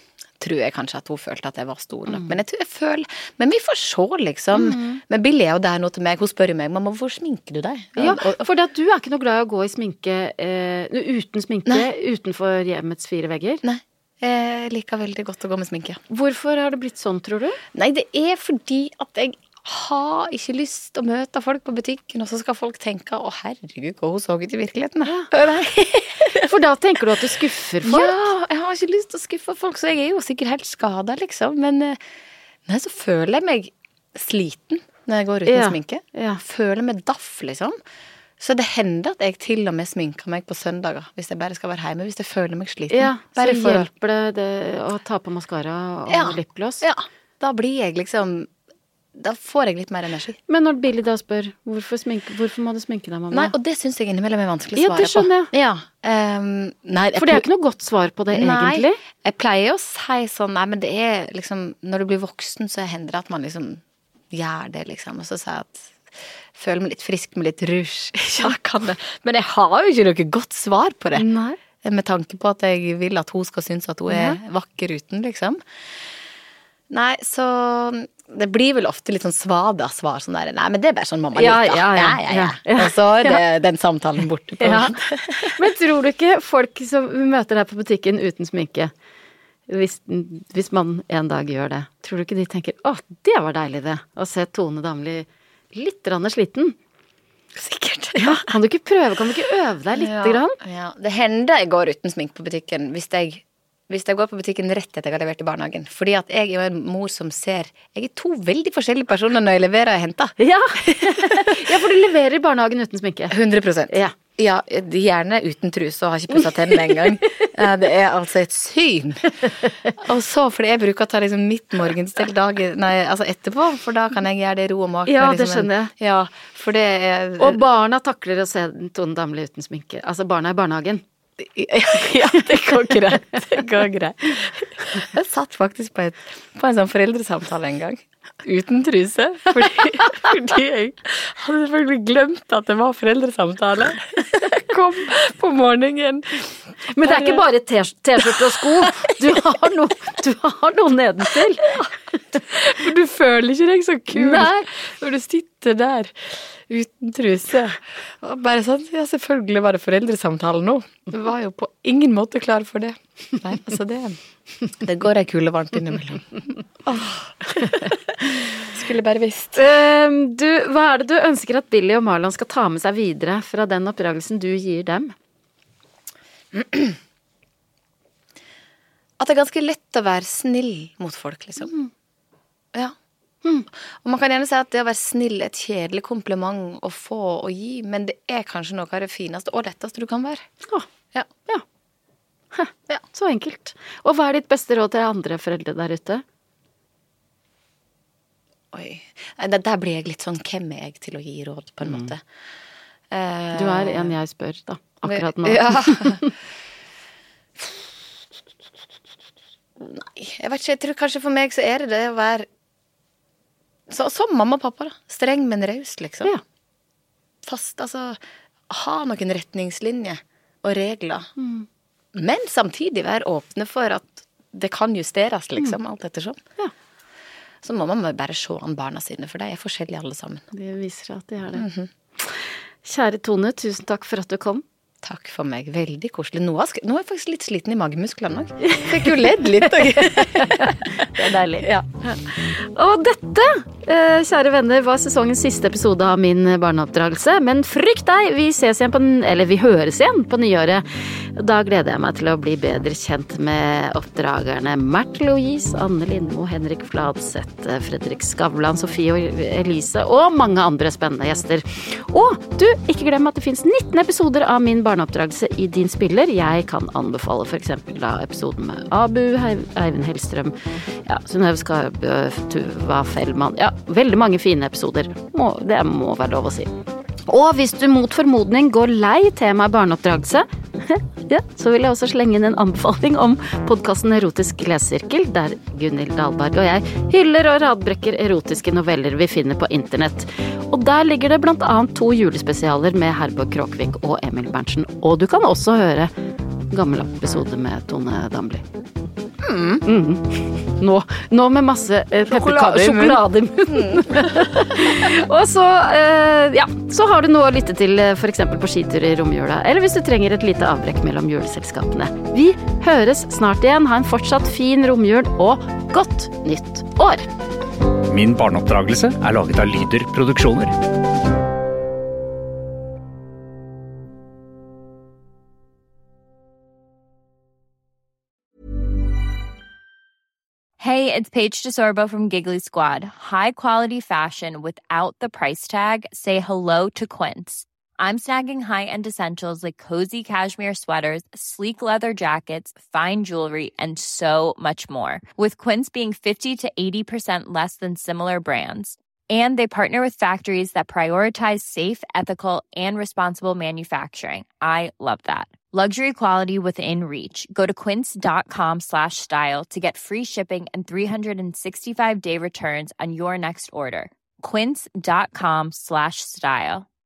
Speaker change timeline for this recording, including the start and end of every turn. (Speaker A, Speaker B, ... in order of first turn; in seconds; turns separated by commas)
Speaker A: 0.4-8.4, Speaker B: 4.5-5.0, Speaker B: 8.0-13.6, Speaker A: 13.6-16.0, Speaker B: 16.1-17.6, Speaker A: 17.7-26.5, Speaker B: 26.3-28.1, Speaker A: 27.8-32.0, Speaker A: 32.6-37.8, Speaker B: 35.5-36.4, Speaker A: 38.4-43.9, Speaker B: 42.9-46.8, Speaker A: 46.1-48.5, Speaker A: 49.1-50.4, Speaker B: 50.5-53.5, Speaker A: 53.3-57.4, Speaker B: 54.8-55.5, Speaker B: 57.1-59.0, Speaker A: 58.3-66.0, Speaker A: 66.5-75.6, Speaker B: 71.1-71.6, Speaker B: 74.1-74.4, Speaker A: 76.9-85.6, Speaker B: 81.3-83.4, Speaker B: 84.6-88.9, Speaker B: 89.7-96.8, Speaker A: 97.5-98.5, Speaker B: 98.2-100.6, Speaker A: 99.9-111.8, Speaker B: 110.4-113.3, Speaker A: 113.3-127.6, Speaker B: 113.9-114.1, Speaker B: 116.7-117.5, Speaker B: 119.6-119.9, Speaker B: 125.0-125.9, Speaker B: 127.4-131.0, Speaker A: 131.4-147.4, Speaker B: 132.1-133.3, Speaker B: 146.9-151.8, Speaker A: 148.2-149.4, Speaker A: 152.3-164.2, Speaker B: 154.1-154.7, Speaker A: 164.7-169.7, Speaker B: 169.5-175.1, Speaker A: 176.5-176.9, Speaker A: 179.2-181.7, Speaker B: 181.6-181.9, Speaker A: 183.9-190.5, Speaker B: 192.5-196.2, Speaker A: 198.7-202.2, Speaker A: 203.1-204.1, Speaker B: 203.5-206.3, Speaker A: 205.1-206.3, Speaker A: 209.8-212.5, Speaker A: 213.9-216.3, Speaker A: 217.4-221.3, Speaker B: 221.4-221.7, Speaker A: 222.1-226.4, Speaker A: 227.6-230.4, Speaker B: 230.5-234.6, Speaker A: 231.5-231.9, Speaker A: 235.0-241.8, Speaker B: 238.6-276.7, Speaker B: 277.3-296.1, Speaker B: 296.7-298.6, Speaker A: 299.4-299.8, Speaker B: 299.8-317.3, Speaker A: 302.3-305.0, Speaker C: 318.1-320.8, Speaker D: 330.8-366.9